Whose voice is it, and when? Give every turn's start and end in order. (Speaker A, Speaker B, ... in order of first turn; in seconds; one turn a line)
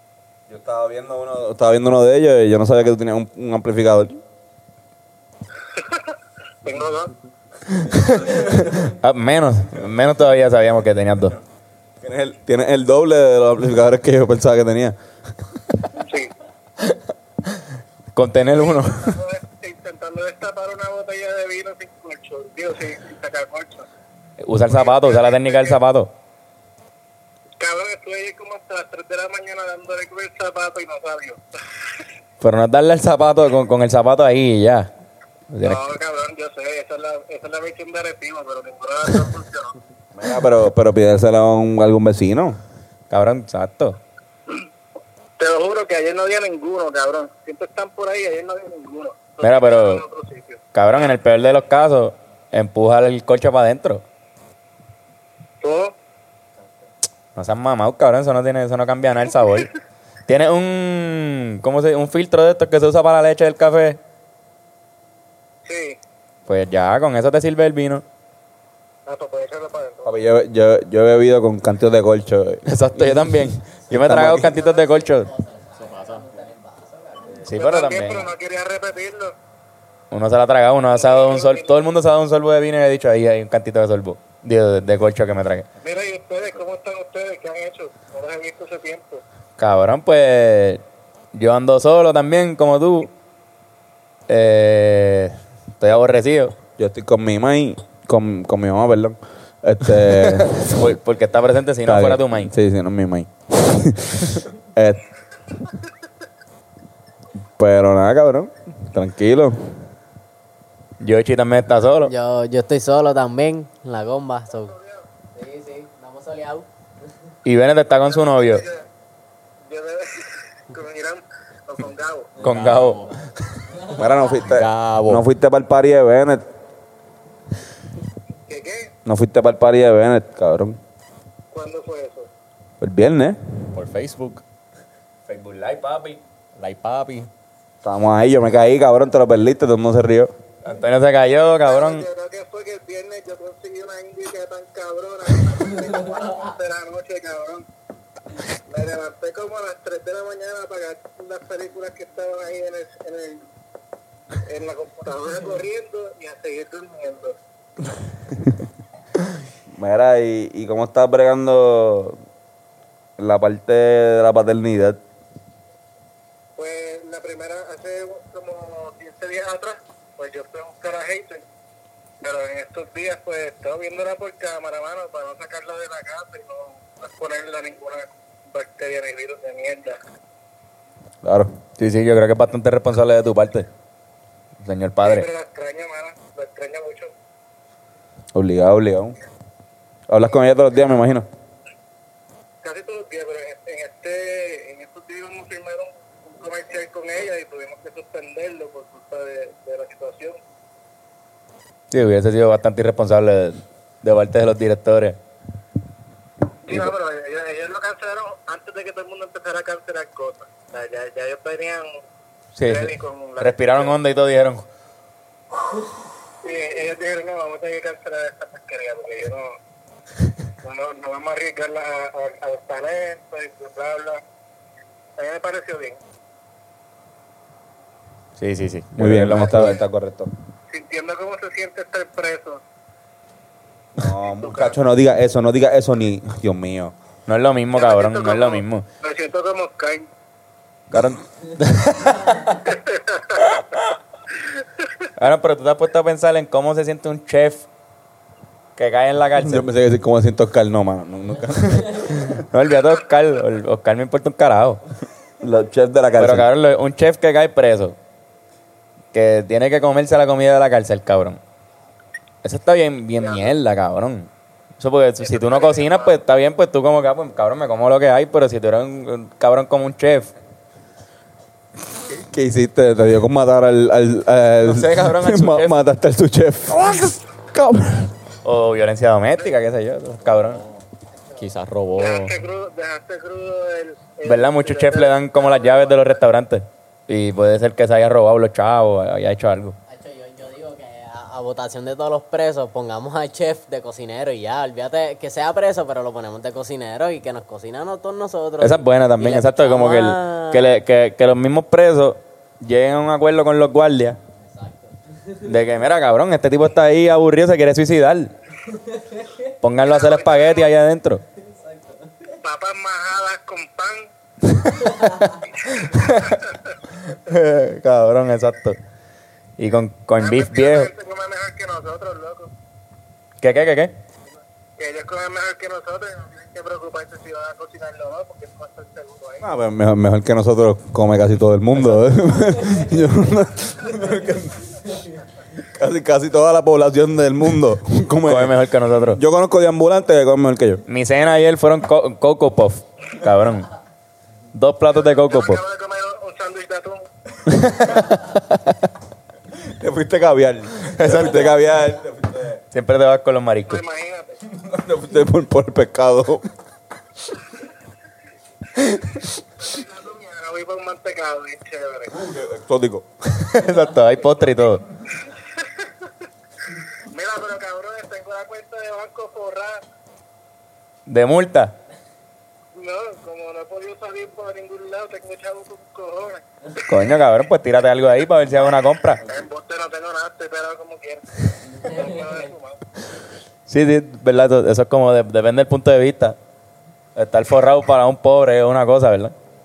Speaker A: 0.5-4.2
Speaker B: 6.6-7.1
Speaker C: 7.7-11.4
Speaker A: 7.9-8.9
Speaker A: 12.0-14.9
Speaker B: 15.9-16.3
Speaker C: 18.1-19.2
Speaker B: 18.5-23.9
Speaker C: 24.4-26.1
Speaker B: 24.7-25.8
Speaker B: 27.6-31.4
Speaker C: 32.4-34.9
Speaker C: 35.5-35.8
Speaker B: 35.6-39.7
Speaker A: 40.1-42.6
Speaker C: 43.1-44.0
Speaker B: 45.4-50.6
Speaker C: 49.4-50.0
Speaker C: 50.7-54.0
Speaker B: 55.6-55.9
Speaker C: 57.4-59.7
Speaker C: 60.3-64.0
Speaker B: 65.6-66.0
Speaker C: 66.5-68.0
Speaker B: 69.0-70.2
Speaker A: 70.0-73.4
Speaker C: 72.6-75.3
Speaker A: 73.9-74.5
Speaker D: 74.5-77.4
Speaker E: 75.8-76.3
Speaker C: 77.4-78.3
Speaker B: 77.5-79.3
Speaker C: 80.1-85.7
Speaker B: 80.9-81.8
Speaker B: 85.8-89.2
Speaker C: 89.6-90.8
Speaker C: 91.3-93.1
Speaker C: 94.3-96.5
Speaker A: 96.8-100.7
Speaker C: 100.0-102.5
Speaker A: 101.8-105.0
Speaker A: 107.6-109.7
Speaker C: 111.0-112.1
Speaker D: 112.0-114.7
Speaker B: 114.5-115.0
Speaker D: 115.3-116.7
Speaker C: 117.4-118.7
Speaker B: 117.9-118.8
Speaker B: 119.7-122.3
Speaker C: 122.4-123.2
Speaker E: 122.4-123.1
Speaker A: 123.9-126.4
Speaker E: 124.4-125.2
Speaker B: 128.5-128.9
Speaker A: 129.1-130.8
Speaker B: 131.5-132.3
Speaker A: 132.8-133.4
Speaker E: 133.7-134.4
Speaker C: 135.3-136.2
Speaker E: 136.6-137.3
Speaker A: 137.8-140.3
Speaker C: 140.6-142.1
Speaker B: 141.6-147.6
Speaker B: 148.7-153.4
Speaker B: 154.4-157.4
Speaker A: 159.8-162.2
Speaker A: 163.2-165.0
Speaker B: 166.6-171.4
Speaker B: 172.2-180.0
Speaker A: 181.2-181.5
Speaker C: 181.8-183.7
Speaker C: 184.6-185.3
Speaker B: 185.0-187.1
Speaker A: 188.3-189.2
Speaker A: 190.1-191.3
Speaker B: 192.6-200.4
Speaker C: 201.9-205.2
Speaker B: 206.7-211.9
Speaker C: 212.6-214.7
Speaker B: 212.6-213.9
Speaker B: 216.4-219.5
Speaker B: 220.6-224.2
Speaker B: 225.2-226.0
Speaker C: 228.4-229.8
Speaker A: 229.0-230.3
Speaker B: 230.7-232.6
Speaker A: 234.0-236.9
Speaker B: 234.3-234.8
Speaker C: 237.3-238.8
Speaker B: 237.7-240.1
Speaker C: 240.9-242.7
Speaker B: 242.7-243.4
Speaker C: 245.2-247.7
Speaker C: 248.8-249.7
Speaker A: 249.4-252.4
Speaker C: 251.8-254.8
Speaker A: 255.4-256.5
Speaker C: 256.2-258.0
Speaker C: 259.1-261.4
Speaker C: 262.4-264.3
Speaker B: 263.2-263.5
Speaker C: 264.8-270.3
Speaker B: 265.2-266.2
Speaker A: 272.1-278.1
Speaker C: 274.6-275.8
Speaker C: 278.4-280.6
Speaker D: 281.2-281.4
Speaker E: 281.4-282.4
Speaker B: 281.9-286.2
Speaker C: 284.2-289.8
Speaker D: 289.9-300.7
Speaker C: 298.6-304.2
Speaker D: 304.4-304.9
Speaker C: 305.4-308.3
Speaker C: 309.6-311.2
Speaker B: 309.8-310.7
Speaker B: 312.4-314.1
Speaker B: 315.7-316.7
Speaker C: 315.7-316.3
Speaker C: 317.1-318.8
Speaker C: 319.6-320.9
Speaker B: 320.2-322.5
Speaker C: 323.4-323.9
Speaker B: 324.8-329.4
Speaker A: 329.4-334.9
Speaker C: 331.7-332.1
Speaker A: 335.6-340.8
Speaker C: 338.2-339.2
Speaker C: 340.9-343.7
Speaker C: 344.5-345.6
Speaker B: 344.9-347.1
Speaker C: 347.5-348.6
Speaker A: 349.6-352.6
Speaker C: 350.9-351.6
Speaker C: 352.7-353.8
Speaker B: 353.7-354.4
Speaker A: 354.6-356.5
Speaker B: 359.6-362.1
Speaker A: 362.1-363.0
Speaker C: 363.3-364.8
Speaker B: 367.1-369.8
Speaker C: 371.1-371.7
Speaker B: 372.7-376.4
Speaker C: 376.8-379.2
Speaker B: 379.2-382.8
Speaker C: 383.7-386.4
Speaker C: 387.1-389.3